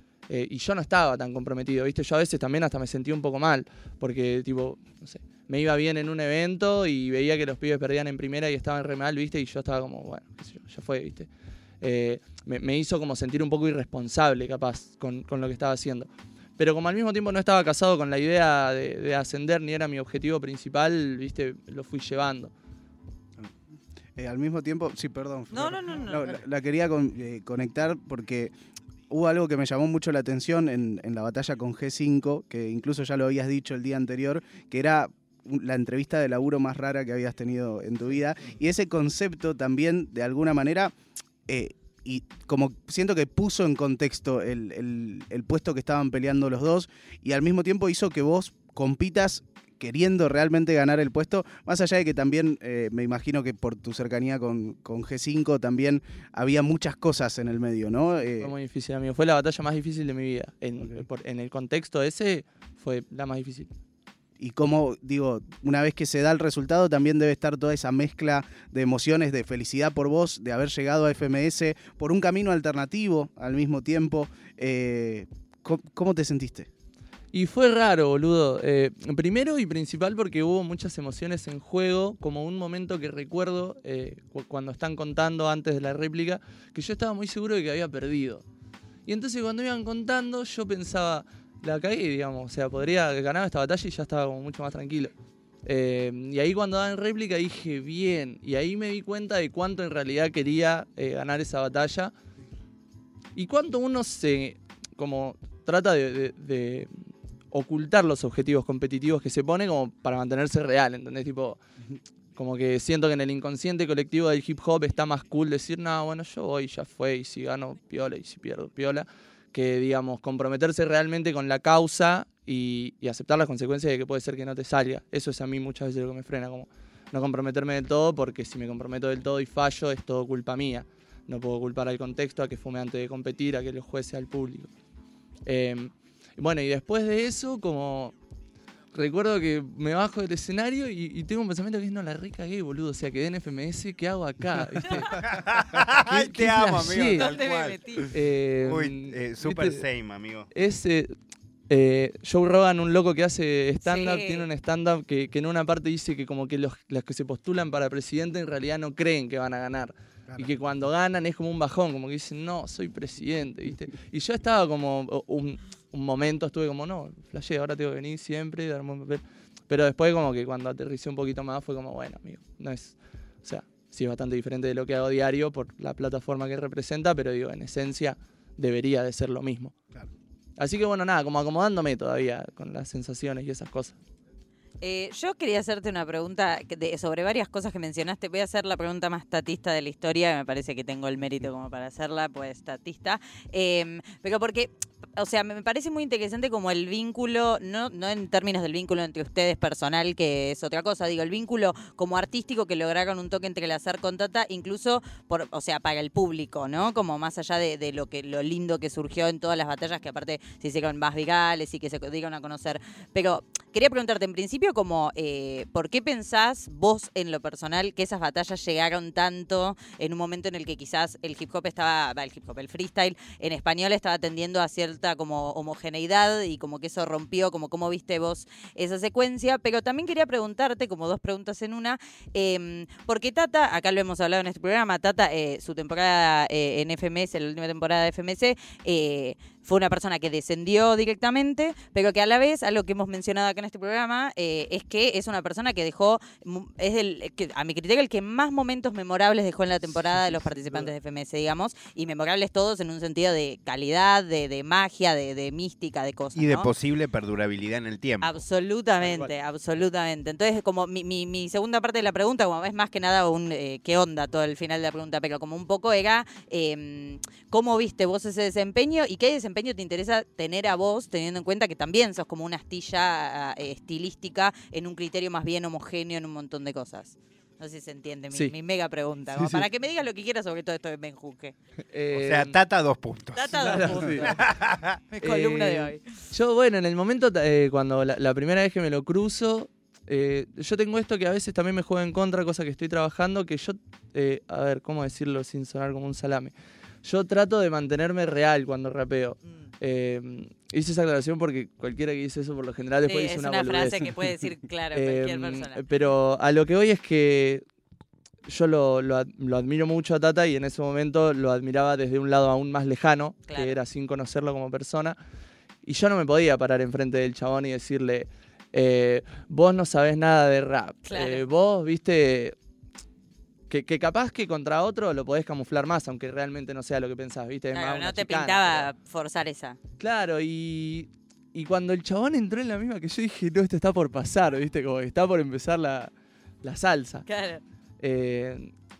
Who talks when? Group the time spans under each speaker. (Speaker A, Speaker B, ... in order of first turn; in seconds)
Speaker A: 0.3-11.3, 11.8-22.5, 58.4-63.7, 77.3-88.4, 89.1-95.1, 95.6-102.1, 103.3-111.6, 112.3-134.7, 135.4-138.1, 138.9-147.3, 148.1-149.8, 150.5-151.1, 151.7-179.7, 180.6-184.0, 250.5-250.8, 259.0-259.3, 279.3-279.6, 281.9-282.6, 283.5-284.3, 285.2-304.3, 304.9-307.6, 308.5-315.2, 315.8-322.5, 323.7-328.9, 330.0-336.1, 336.6-337.3, 338.0-338.7
Speaker B: 24.1-28.5, 29.1-40.9, 41.5-58.5, 64.4-76.7
Speaker C: 25.5-26.4, 144.9-145.1, 147.2-148.1, 153.8-154.5, 184.8-256.7, 258.2-281.5, 283.3-286.1, 303.1-305.8, 313.5-313.8, 321.1-321.4, 327.7-329.8, 337.3-337.6
Speaker D: 145.2-148.0, 148.6-150.5, 256.3-258.4, 282.1-285.0